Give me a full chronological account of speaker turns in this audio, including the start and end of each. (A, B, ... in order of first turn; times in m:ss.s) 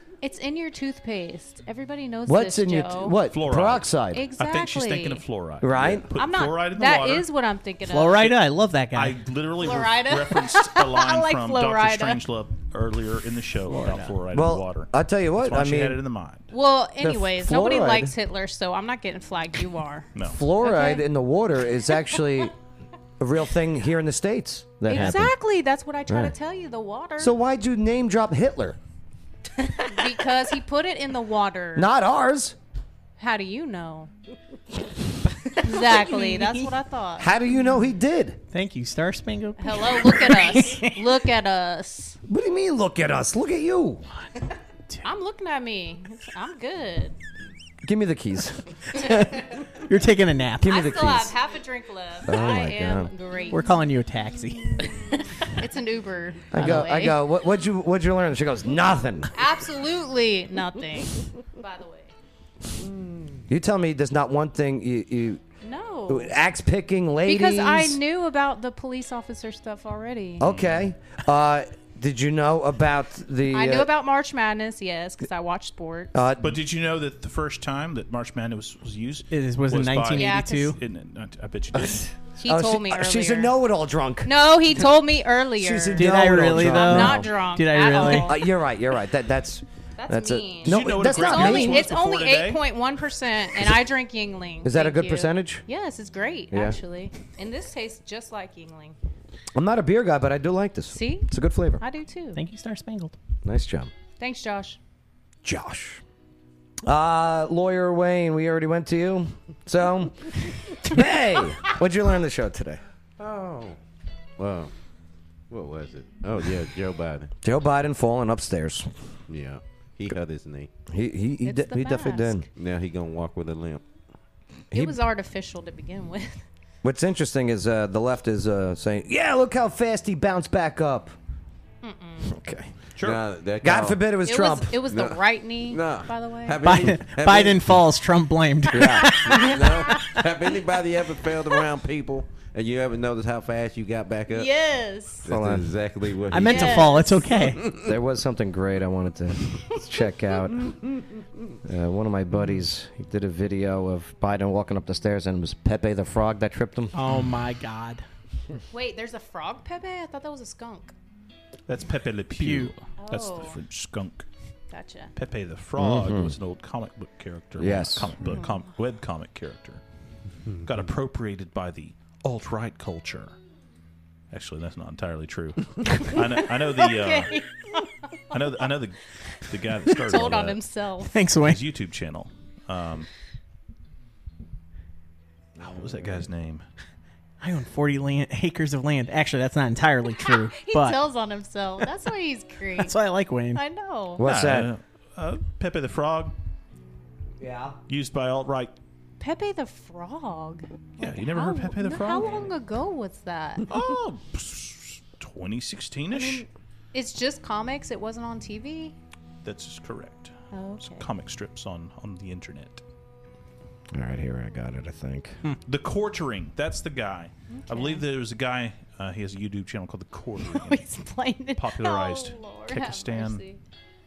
0:00.2-0:03.2 A
0:02.2-0:04.2 B
0:03.3-0:07.3 C
0:04.1-0:05.2 A
0:05.6-0:06.1 B
0:06.1-0:08.3 A
0:07.9-0:09.2 D
0:08.9-0:16.5 C
0:09.6-0:12.2 A
0:13.7-0:14.1 D
0:14.3-0:16.0 B
0:16.5-0:20.1 A
0:17.0-0:18.1 B
0:20.3-0:22.5 B
0:20.6-0:21.0 A
0:23.2-0:25.3 B
0:24.9-0:27.3 A
0:26.1-0:26.3 B
0:27.2-0:28.8 B
0:29.6-0:31.9 A
0:31.7-0:32.6 B
0:33.2-0:34.1 A
0:35.6-0:37.3 A
0:36.0-0:36.4 D
0:37.2-0:38.4 B
0:38.5-0:40.9 D
0:39.6-0:42.2 A
0:42.3-0:44.0 B
0:45.0-0:47.1 A
0:47.8-0:48.7 B
0:48.9-0:50.8 D
0:50.6-0:51.3 B
0:50.6-0:53.7 A
0:52.2-0:53.1 B
0:53.5-0:54.7 D
0:54.9-0:57.2 A
0:56.5-0:59.3 B
0:56.6-0:56.8 D
0:59.3-1:02.1 A
1:03.5-1:05.4 B
1:05.6-1:06.3 A
1:06.1-1:08.0 B
1:07.2-1:10.5 A
1:10.4-1:13.9 B
1:13.5-1:16.2 A
1:16.1-1:16.6 B
1:16.4-1:22.1 C
1:19.3-1:20.8 D
1:20.1-1:20.8 A
1:21.7-1:24.3 B
1:22.4-1:23.5 A
1:24.2-1:28.5 A
1:25.6-1:27.3 B
1:25.9-1:28.3 D
1:28.0-1:31.9 B
1:30.0-1:39.0 A
1:30.6-1:32.6 C
1:34.6-1:35.6 B
1:36.5-1:36.8 B
1:39.5-1:41.8 B
1:40.9-1:42.4 A
1:42.3-1:43.1 D
1:43.4-1:43.9 B
1:44.2-1:44.8 A
1:45.4-1:46.0 B
1:46.8-1:52.8 B
1:53.2-1:53.8 E
1:54.4-1:54.7 E
1:55.5-1:57.3 E
1:57.4-1:58.9 B
1:59.3-2:00.7 E
2:00.9-2:02.4 B
2:01.4-2:02.4 A
2:02.6-2:03.8 E
2:04.7-2:05.0 B
2:04.7-2:06.4 A
2:06.8-2:11.1 B
2:11.8-2:12.3 A
2:12.2-2:12.7 B
2:13.0-2:14.0 E
2:13.6-2:14.8 B
2:14.2-2:16.6 A
2:14.9-2:17.6 E
2:16.6-2:19.6 D
2:18.7-2:19.1 B
2:19.2-2:24.5 E
2:19.5-2:20.2 A
2:24.3-2:25.2 A
2:25.2-2:27.9 E
2:25.3-2:25.6 B
2:26.3-2:27.6 D
2:26.4-2:27.2 A
2:27.8-2:30.6 B
2:30.6-2:31.0 E
2:31.6-2:36.9 B
2:36.9-2:38.0 D
2:38.7-2:40.9 A
2:41.7-2:44.3 C
2:42.4-2:42.7 D
2:43.0-2:43.6 A
2:44.7-2:45.1 A
2:45.2-2:49.8 C
2:45.8-2:46.4 B
2:47.6-2:48.1 B
2:48.2-2:48.6 A
2:50.6-2:53.4 C
2:54.3-2:57.3 C
2:56.0-2:58.4 A
2:58.3-3:00.6 C
3:00.0-3:01.2 A
3:01.0-3:01.6 D
3:01.4-3:03.1 C
3:05.6-3:06.6 C
3:07.4-3:11.0 D
3:10.2-3:12.9 A
3:12.8-3:13.6 D
3:13.5-3:14.2 A
3:14.2-3:14.7 B
3:14.2-3:16.3 C
3:17.4-3:17.8 B
3:17.9-3:18.7 C
3:19.2-3:23.7 A
3:21.0-3:22.4 C
3:23.7-3:26.4 C
3:26.1-3:28.9 A
3:29.4-3:32.8 C
3:30.5-3:31.0 A
3:33.9-3:35.4 B
3:35.6-3:40.8 C
3:37.5-3:38.0 A
3:40.4-3:43.6 A
3:41.6-3:43.4 C